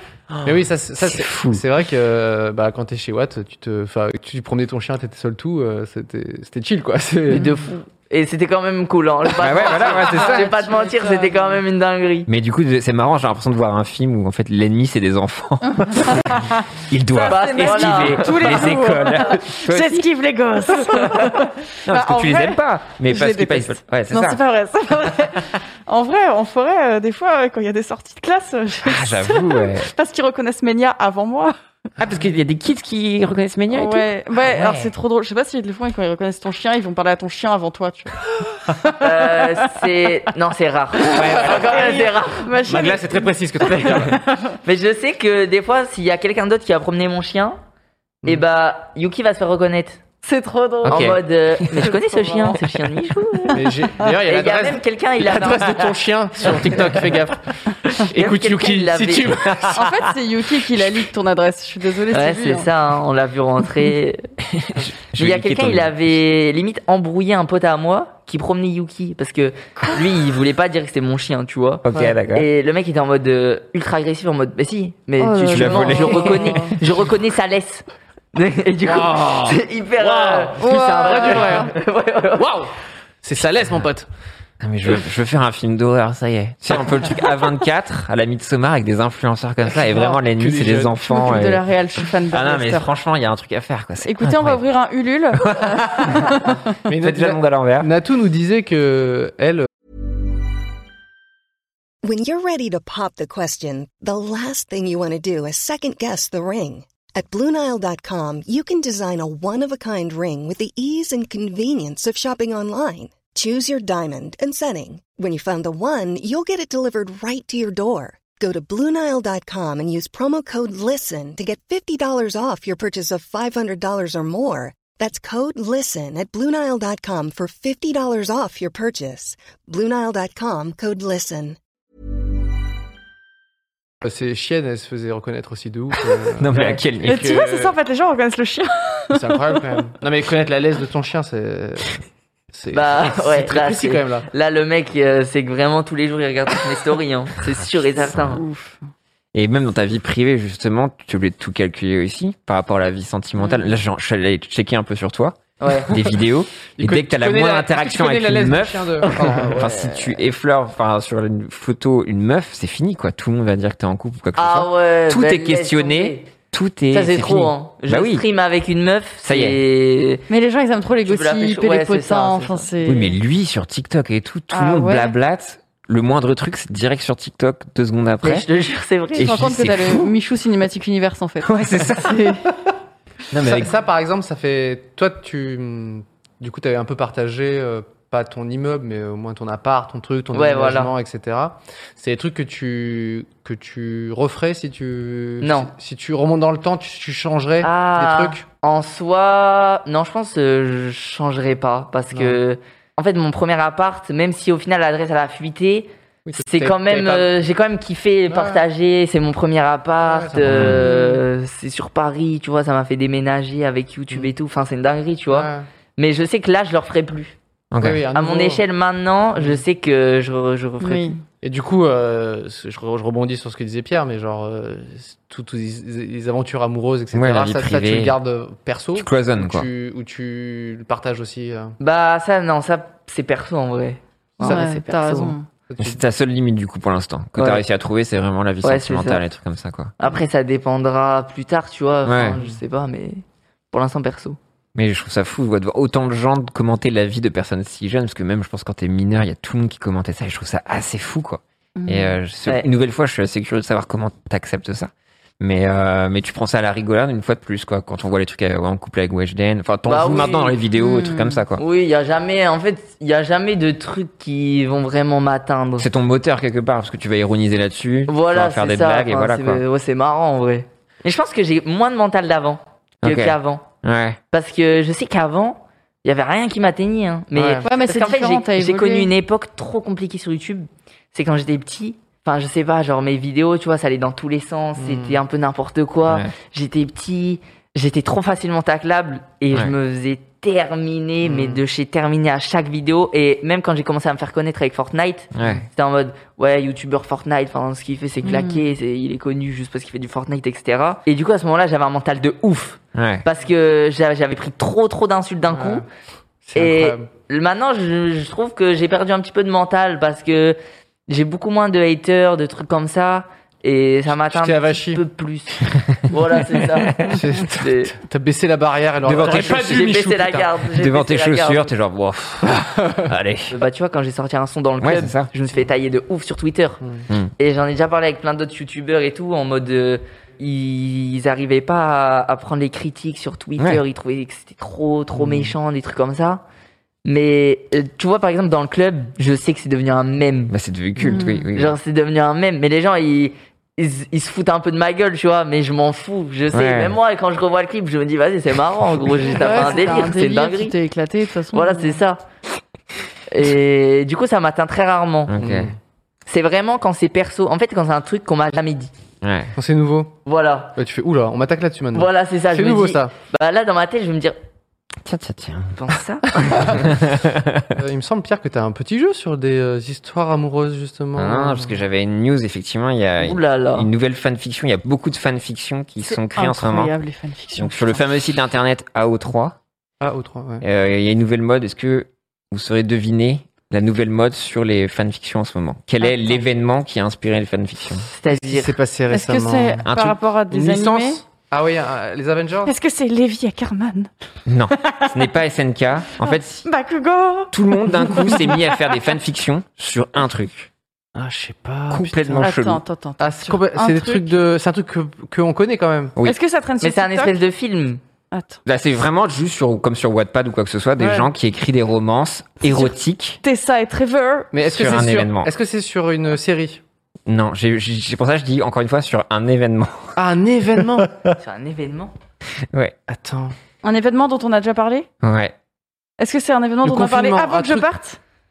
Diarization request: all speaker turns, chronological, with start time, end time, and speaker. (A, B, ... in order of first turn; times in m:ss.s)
0:00.3-0:01.6 A
0:00.4-0:07.5 B
0:07.3-0:12.3 C
0:09.4-0:10.5 A
0:09.8-0:11.6 D
0:12.3-0:20.1 A
0:15.8-0:16.5 D
0:17.1-0:31.5 D
0:17.3-0:18.7 C
0:20.7-0:24.4 A
0:28.8-0:29.9 A
0:32.0-0:34.9 A
0:33.7-0:39.5 D
0:39.0-0:42.5 C
0:41.1-0:42.0 A
0:41.7-0:44.5 D
0:42.6-0:44.2 B
0:44.6-0:47.6 C
0:48.2-0:50.0 C
0:50.2-0:51.2 D
0:50.8-0:51.2 A
0:50.9-0:56.8 C
0:51.7-0:52.6 D
0:53.5-0:59.8 B
0:58.1-0:59.4 C
0:59.5-0:59.9 A
0:59.7-1:02.7 D
1:02.1-1:04.2 C
1:04.6-1:06.0 A
1:05.2-1:22.5 C
1:11.8-1:12.5 A
1:15.2-1:16.8 D
1:15.5-1:16.6 A
1:18.8-1:21.7 B
1:20.6-1:21.7 D
1:22.4-1:24.1 B
1:24.6-1:31.6 A
1:29.6-1:31.0 B
1:31.0-1:32.9 D
1:32.3-1:34.6 A
1:34.0-1:36.5 D
1:35.3-1:37.9 A
1:36.9-1:39.7 B
1:42.0-2:11.6 E
2:14.0-2:17.8 B
2:16.4-2:17.3 A
2:17.0-2:19.3 D
2:19.1-2:24.3 B
2:22.7-2:28.4 C
2:28.0-2:28.4 A
2:28.2-2:28.8 D
2:29.3-2:48.2 A
2:33.4-2:33.7 D
2:35.6-2:35.9 C
2:36.8-2:39.8 B
2:39.0-2:40.1 C
2:44.4-2:46.3 C
2:46.9-2:50.2 C
2:49.2-2:49.6 A
2:50.3-2:53.1 D
2:51.0-2:52.7 C
2:52.8-2:58.5 A
2:54.5-2:55.1 D
2:58.2-2:59.3 C
2:59.2-3:00.1 A
2:59.2-3:02.4 D
3:01.4-3:02.4 A
3:03.3-3:03.7 A
3:03.4-3:18.4 B
3:10.3-3:10.9 C
3:15.4-3:15.7 C
3:17.6-3:25.9 C
3:22.1-3:22.4 B
3:26.2-3:27.3 B
3:26.4-3:37.4 C
3:28.3-3:28.6 B
3:30.0-3:30.8 B
3:30.4-3:30.8 A
3:30.8-3:31.2 D
3:35.3-3:35.7 B
3:37.7-3:38.0 A
3:37.8-3:38.6 B
3:38.1-3:41.1 C
3:40.8-3:41.2 D
3:41.4-3:51.7 B
3:47.1-3:48.2 A
3:48.9-3:49.7 A
3:51.8-3:55.3 C
3:54.4-3:55.4 D
3:55.7-3:56.0 B
3:55.8-3:59.9 A
3:57.4-3:57.6 C
3:58.6-3:59.2 C
4:00.0-4:04.4 C
4:02.0-4:02.4 A
4:04.7-4:21.6 A
4:11.8-4:12.2 D
4:19.8-4:20.6 C
4:20.8-4:21.4 D
4:21.6-4:25.9 C
4:25.8-4:29.6 A
4:28.1-4:33.6 C
4:33.0-4:34.2 A
4:34.3-5:05.8 C
4:37.3-4:37.6 B
4:37.6-4:39.1 D
4:44.8-4:45.2 B
4:46.1-4:46.3 A
4:51.2-4:51.6 B
4:55.3-4:55.6 A
4:58.2-4:58.7 D
5:02.9-5:03.2 A
5:05.5-5:05.8 B
5:06.4-5:07.1 B
5:06.5-5:10.6 C
5:11.1-5:17.0 C
5:14.1-5:15.0 B
5:17.0-5:20.5 B
5:17.6-5:17.9 C
5:19.0-5:19.8 A
5:19.1-5:21.7 C
5:20.7-5:23.5 A
5:23.5-5:26.8 C
5:24.8-5:25.3 A
5:27.4-5:36.4 C
5:35.2-5:35.5 B
5:37.0-5:40.5 C
5:40.5-5:41.8 A
5:41.0-5:41.5 D
5:41.5-5:50.7 C
5:46.5-5:47.0 A
5:49.3-5:52.0 D
5:51.5-5:52.2 C
5:53.3-5:55.3 C
5:55.3-5:55.7 A
5:55.4-5:55.8 B
5:56.3-5:58.9 C
5:59.2-5:59.5 A
5:59.6-6:00.1 B
6:00.2-6:00.7 C
6:00.8-6:03.1 B
6:01.9-6:04.4 C
6:05.0-6:05.8 A
6:05.8-6:06.8 C
6:06.6-6:07.7 A
6:07.7-6:11.8 B
6:11.2-6:16.9 A
6:13.2-6:13.9 C
6:16.0-6:18.0 D
6:17.6-6:19.6 A
6:20.0-6:20.6 B
6:20.6-6:28.1 A
6:28.2-6:28.7 C
6:28.2-6:29.8 B
6:29.1-6:31.2 D
6:29.8-6:30.2 A
6:30.5-6:32.7 B
6:32.6-6:34.1 D
6:34.4-6:36.7 A
6:34.8-6:35.1 D
6:36.2-6:39.0 D
6:37.5-6:40.7 A
6:41.1-6:42.5 B
6:41.9-6:42.8 A
6:42.4-6:44.3 D
6:43.2-6:46.2 B
6:46.2-6:47.3 D
6:46.8-6:48.0 C
6:48.3-6:48.6 D
6:48.6-6:53.4 A
6:52.6-6:54.5 D
6:54.5-6:56.8 B
6:54.6-6:55.5 A
6:57.3-7:00.2 A
7:00.2-7:01.1 B
7:01.4-7:02.1 C
7:03.1-7:03.5 B
7:03.8-7:05.1 D
7:05.2-7:05.5 A
7:06.2-7:08.2 D
7:06.8-7:07.9 B